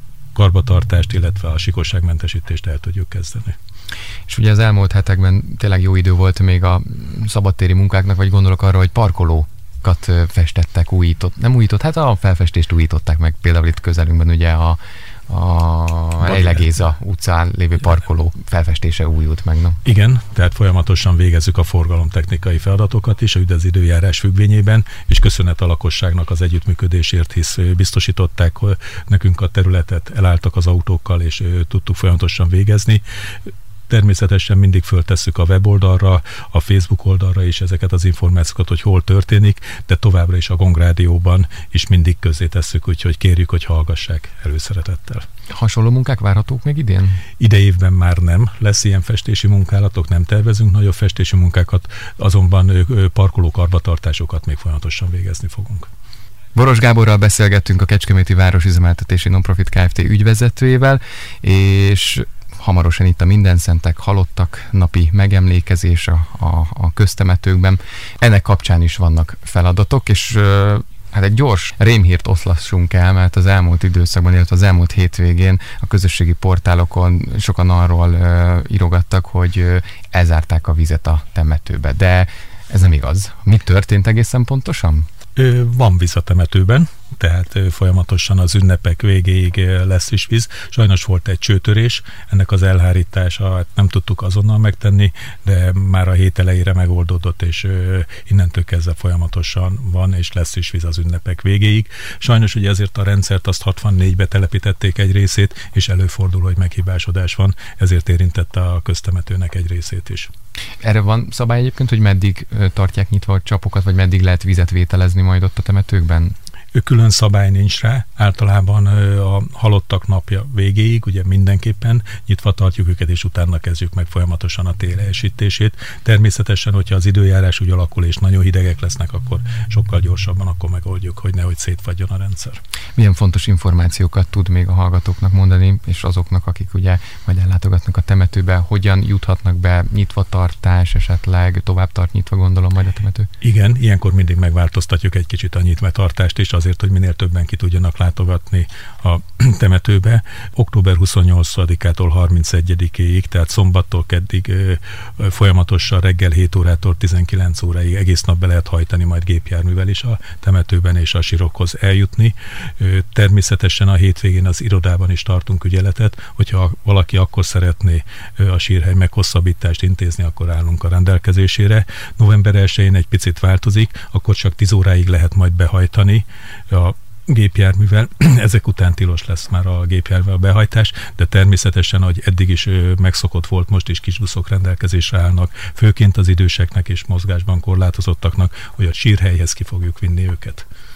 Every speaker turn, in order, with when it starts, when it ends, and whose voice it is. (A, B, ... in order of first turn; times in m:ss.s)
0:00.3-0:03.6 A
0:04.3-0:19.8 B
0:16.2-0:16.6 A
0:19.8-0:33.0 A
0:33.9-0:45.2 A
0:45.5-0:47.2 B
0:47.4-0:55.9 A
0:56.5-1:25.1 B
1:25.4-1:50.3 A
1:50.8-1:56.3 B
1:56.7-2:12.6 A
2:13.0-2:23.3 B
2:23.4-3:10.7 A